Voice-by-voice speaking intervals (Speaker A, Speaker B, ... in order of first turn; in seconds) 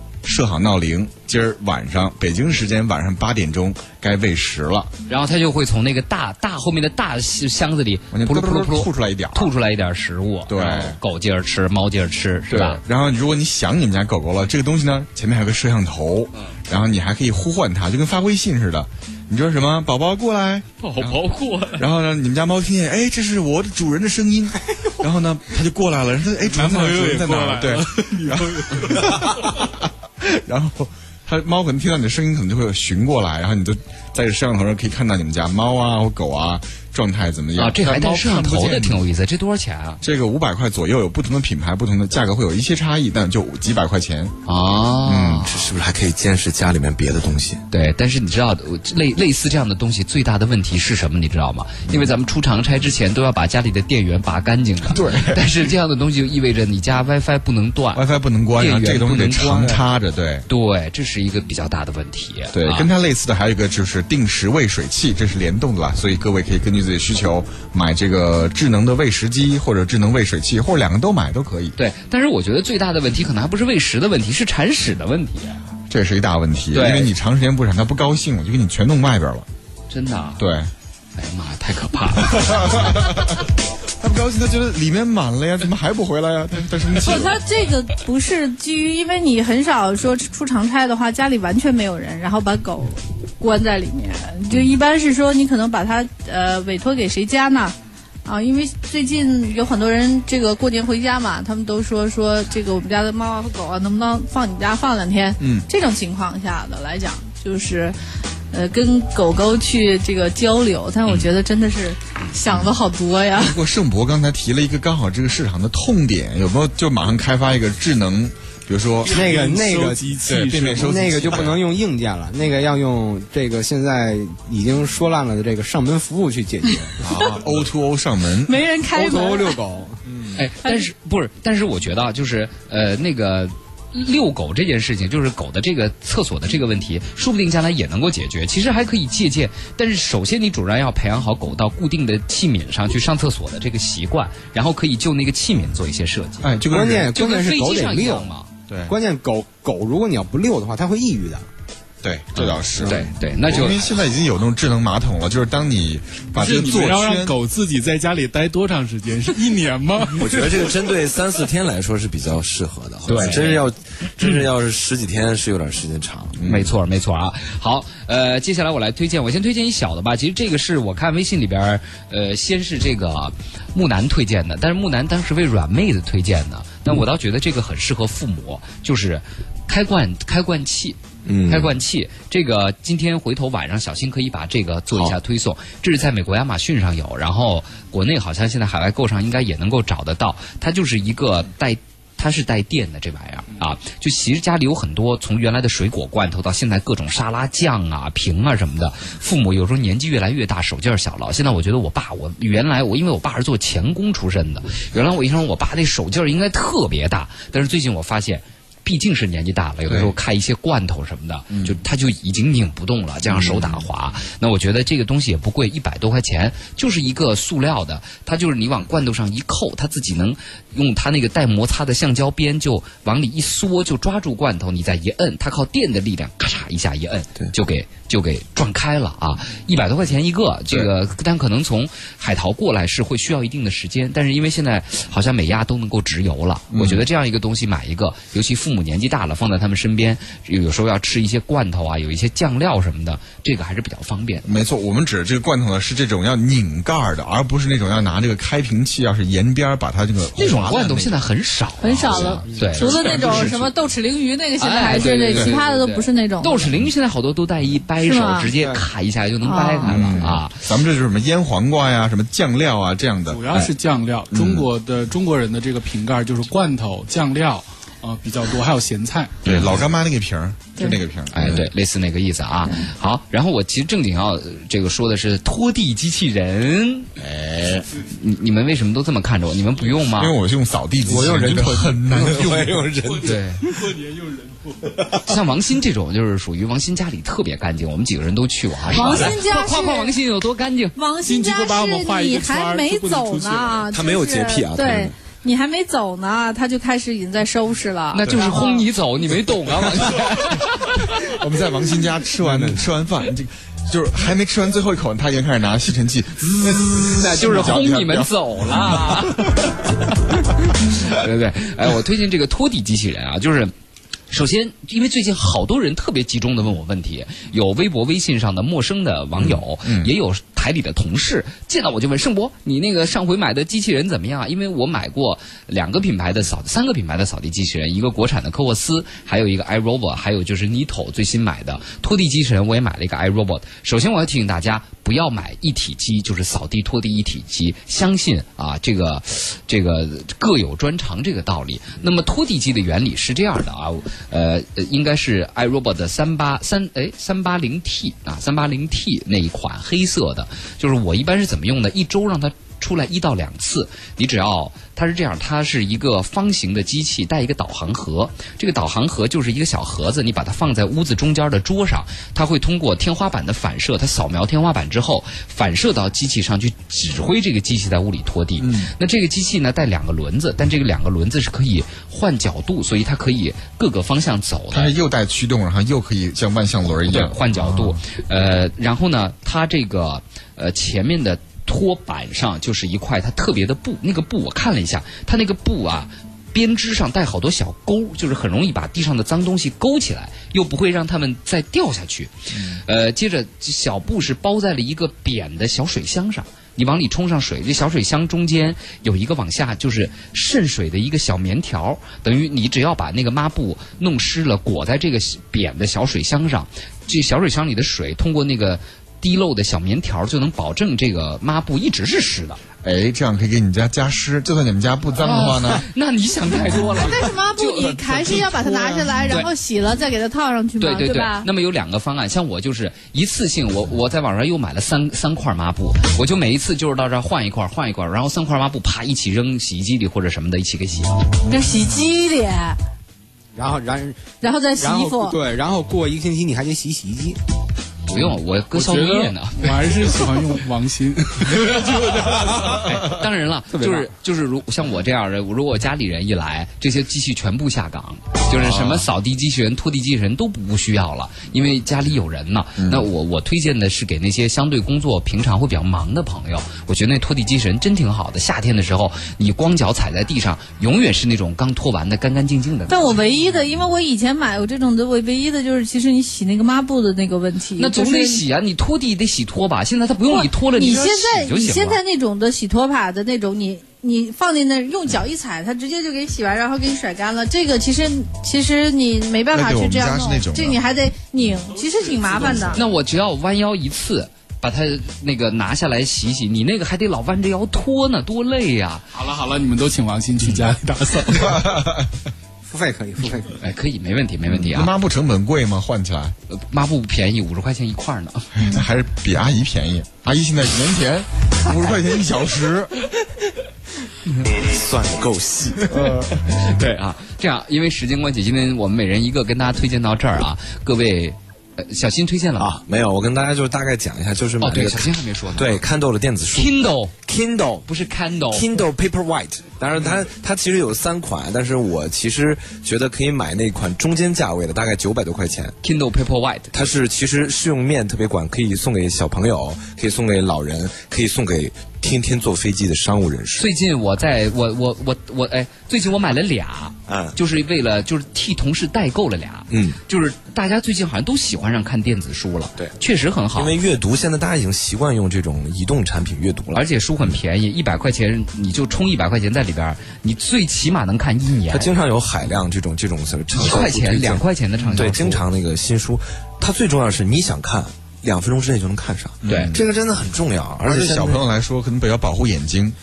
Speaker A: 0.2-4.9, 8.1-9.5, 10.5-11.0, 12.5-21.2, 21.8-39.0, 40.0-44.4, 45.0-45.5, 54.9-55.7, 57.9-60.5, 62.5-71.8, 75.9-79.5, 80.4-80.7, 82.2-87.4, 105.4-105.7, 113.3-119.3, 120.3-121.6, 127.0-128.6, 130.1-130.4, 146.4-147.1, 148.7-148.9, 152.0-157.3, 166.4-166.7, 209.9-210.1, 211.5-211.8, 213.3-213.8, 236.7-237.0, 244.4-251.2, 252.0-253.7, 254.9-255.6, 259.9-263.7, 264.3-264.7, 269.4-271.6, 277.2-277.9, 280.1-282.9, 298.3-298.7, 299.8-309.8, 319.4-320.1, 368.6-368.9, 374.7-378.0, 392.5-392.8, 412.8-415.9, 448.6-449.1, 452.8-453.1, 479.5-480.8, 491.5-491.9, 494.5-496.4, 498.6-502.9, 505.9-506.4, 554.8-555.1, 559.4-559.9, 560.9-563.0
Speaker B: 5.1-12.8, 20.8-21.9, 37.6-40.0, 44.5-45.6, 47.7-58.0, 58.6-59.8, 60.5-62.9, 71.8-75.6, 76.7-77.1, 79.9-80.4, 81.2-83.0, 130.4-146.5, 147.1-148.5, 152.3-153.9, 163.1-163.6, 166.4-244.5, 250.4-253.7, 254.6-260.6, 271.3-277.1, 278.1-280.4, 283.2-283.6, 285.2-291.0, 298.1-301.1, 307.0-309.7, 310.8-313.7, 314.3-374.9, 376.9-412.6, 415.2-419.5, 420.8-431.2, 438.1-439.8, 442.8-463.2, 467.8-472.0, 482.7-489.0, 490.4-490.7, 493.6-494.9, 496.5-498.5, 506.5-512.8, 514.6-515.8, 516.5-517.2, 517.8-518.8, 525.8-526.8, 533.6-543.8, 546.7-551.9, 553.5-555.4, 559.5-559.8
Speaker C: 26.4-29.3, 119.1-121.4, 156.3-160.6, 263.3-269.4, 283.0-285.0, 291.2-293.9, 438.7-442.8, 481.8-482.8, 489.1-491.7
Speaker D: 45.5-47.6, 160.1-166.4, 181.3-181.7, 281.2-281.6, 282.1-283.4, 293.9-295.1, 504.5-506.0, 512.6-517.9, 518.5-525.8, 526.7-533.7, 537.1-537.4, 539.7-540.0, 543.5-546.8, 551.7-561.4
Speaker E: 87.0-108.0, 108.5-113.6, 128.5-129.6, 130.6-130.9, 251.8-256.7, 258.0-258.5, 259.4-260.3, 288.8-290.2, 291.0-298.8, 416.9-421.5, 431.5-432.8, 434.4-435.4, 462.9-468.4, 470.3-482.8
Speaker F: 119.1-120.2, 120.8-127.3, 128.9-130.1, 146.7-148.3, 148.9-151.4, 281.1-283.1, 433.6-437.4, 443.7-444.1, 492.6-493.5